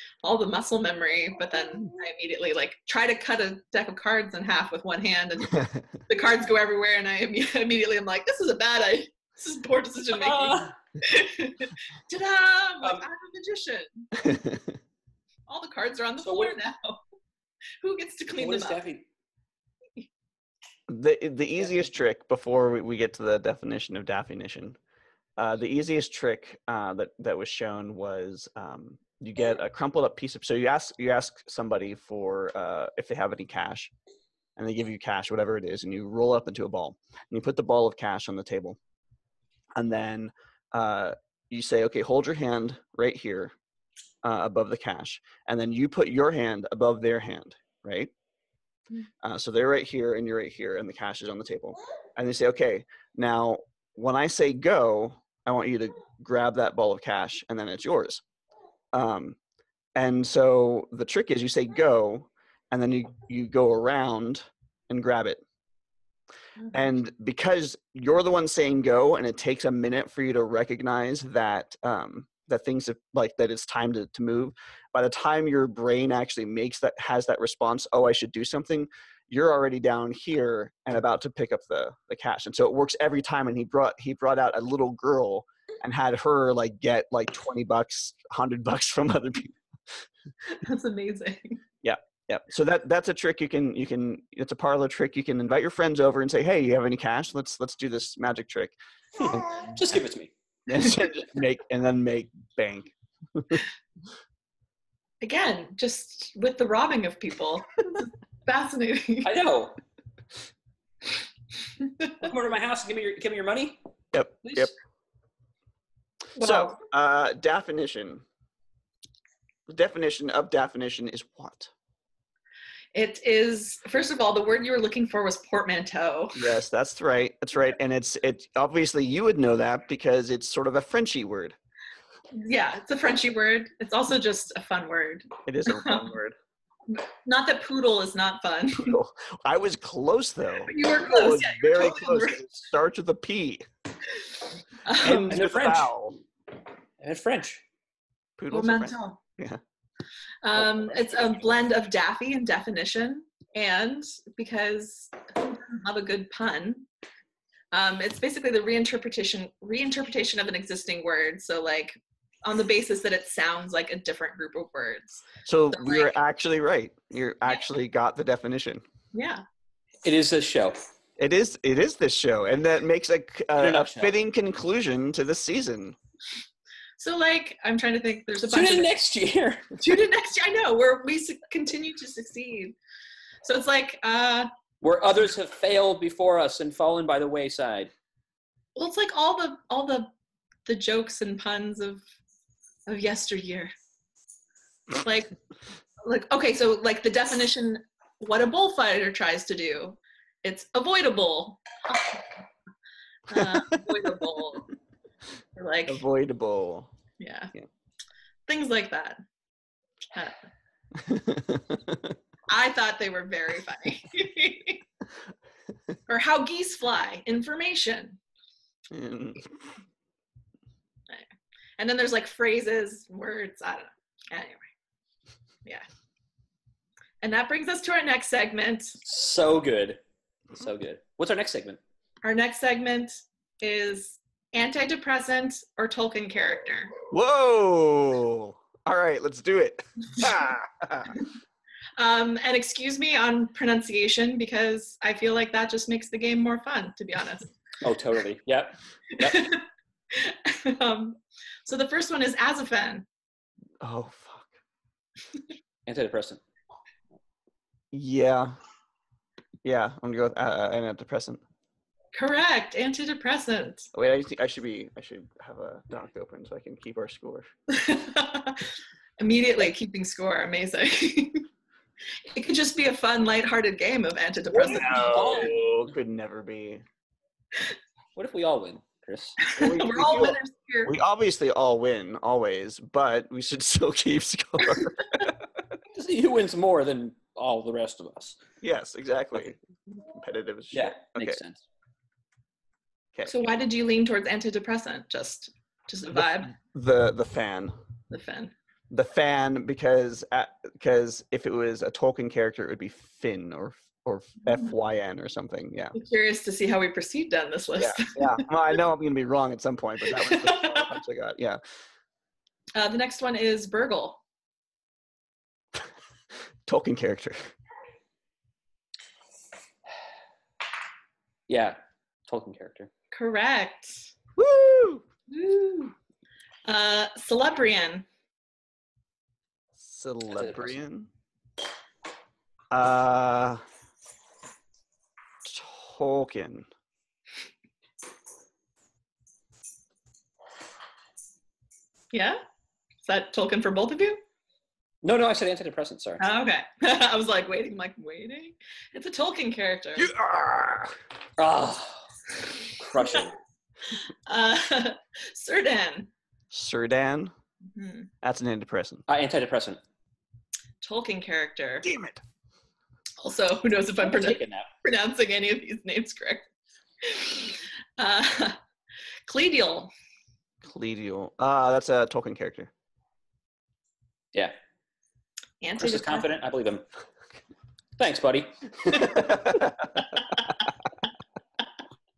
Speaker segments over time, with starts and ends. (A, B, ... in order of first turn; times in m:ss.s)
0:00.2-0:14.1 A
0:10.1-0:10.8 B
0:14.2-0:14.8 C
0:15.5-0:17.0 A
0:16.2-0:16.6 B
0:17.8-0:18.8 A
0:18.4-0:19.0 B
0:20.9-0:24.8 C
0:25.4-0:33.9 C
0:34.6-0:38.8 C
0:39.8-0:43.5 C
0:44.2-0:48.1 C
0:49.2-0:58.2 C
0:58.9-0:59.4 C
1:00.0-1:05.4 C
1:06.7-1:29.9 C
1:30.5-1:31.6 A
1:31.8-1:38.8 C
1:39.2-1:40.3 B
1:39.3-1:39.6 C
1:40.7-1:43.6 C
1:45.2-1:49.3 A
1:49.2-1:49.8 B
1:51.8-1:52.2 A
1:52.2-1:53.8 B
1:54.1-1:54.7 C
1:54.4-1:54.7 B
1:56.4-1:58.2 C
1:56.4-1:56.8 A
1:59.7-2:01.7 C
2:03.0-2:06.5 A
2:06.3-2:11.6 C
2:12.3-2:16.0 A
2:15.5-2:16.4 C
2:16.9-2:19.0 A
2:18.8-2:23.6 C
2:20.6-2:22.4 A
2:24.8-2:25.3 A
2:24.9-2:26.2 C
2:25.1-2:25.9 B
2:27.0-2:27.6 B
2:28.4-2:29.6 C
2:28.5-2:29.2 A
2:30.4-2:36.9 A
2:30.6-2:31.2 C
2:37.7-2:46.1 A
2:45.4-2:48.8 C
2:49.1-2:49.4 A
2:50.0-2:50.8 B
2:51.2-2:56.0 C
2:53.6-2:54.2 B
2:57.0-2:58.9 A
2:58.5-2:59.8 B
2:59.8-3:02.8 A
3:03.4-3:04.5 A
3:04.8-3:07.9 B
3:08.8-3:10.1 A
3:10.7-3:12.0 A
3:12.9-3:13.7 A
3:15.0-3:15.3 A
3:16.0-3:22.3 A
3:23.3-3:24.7 A
3:23.3-3:24.5 C
3:25.6-3:26.0 A
3:25.9-3:26.9 C
3:27.2-3:27.5 A
3:28.5-3:29.2 A
3:31.0-3:32.2 C
3:32.5-3:34.8 A
3:36.1-3:38.2 A
3:38.9-3:39.6 C
3:41.8-3:44.7 A
3:47.2-3:49.0 A
3:49.0-3:50.0 B
3:50.5-3:51.8 B
3:52.2-3:56.9 A
3:57.1-4:01.2 C
4:02.0-4:07.5 A
4:07.8-4:09.5 B
4:09.2-4:13.0 A
4:13.8-4:14.6 C
4:15.9-4:16.4 B
4:17.9-4:18.6 C
4:19.6-4:21.4 C
4:22.1-4:23.9 A
4:23.9-4:27.5 C
4:27.7-4:31.5 A
4:32.3-4:35.4 A
4:34.6-4:35.7 B
4:34.6-4:36.8 C
4:38.2-4:39.4 B
4:39.4-4:40.9 A
4:39.6-4:45.6 C
4:45.9-4:48.4 B
4:48.6-4:51.4 C
4:50.7-4:51.6 B
4:53.3-4:56.5 A
4:56.1-4:57.7 C
4:58.1-4:58.5 A
4:58.9-5:06.0 C
5:05.9-5:08.5 A
5:07.8-5:11.6 C
5:10.1-5:10.9 A
5:12.8-5:14.2 A
5:16.7-5:17.5 C
5:21.5-5:22.9 B
5:23.1-5:24.1 A
5:24.4-5:25.0 C
5:25.3-5:26.0 A
5:26.7-5:28.1 A
5:29.8-5:31.1 C
5:30.3-5:30.8 B
5:32.7-5:33.6 C
5:35.4-5:36.7 C
5:42.1-5:42.4 A
5:43.0-5:44.2 A
5:45.0-5:46.2 B
5:46.2-5:50.1 A
5:50.0-5:50.9 C
5:51.4-5:52.1 B
5:52.8-5:53.4 B
5:54.3-5:56.1 A
5:56.5-5:57.3 C
5:57.8-5:58.1 A
5:58.2-5:59.0 C
5:59.1-5:59.8 B
6:00.8-6:01.9 A
6:01.8-6:02.2 C
6:03.2-6:06.5 A
6:04.0-6:04.7 B
6:07.0-6:08.6 A
6:09.3-6:09.9 A
6:10.6-6:12.7 C
6:15.6-6:16.3 A
6:15.8-6:16.8 B
6:18.0-6:19.5 B
6:19.1-6:20.0 C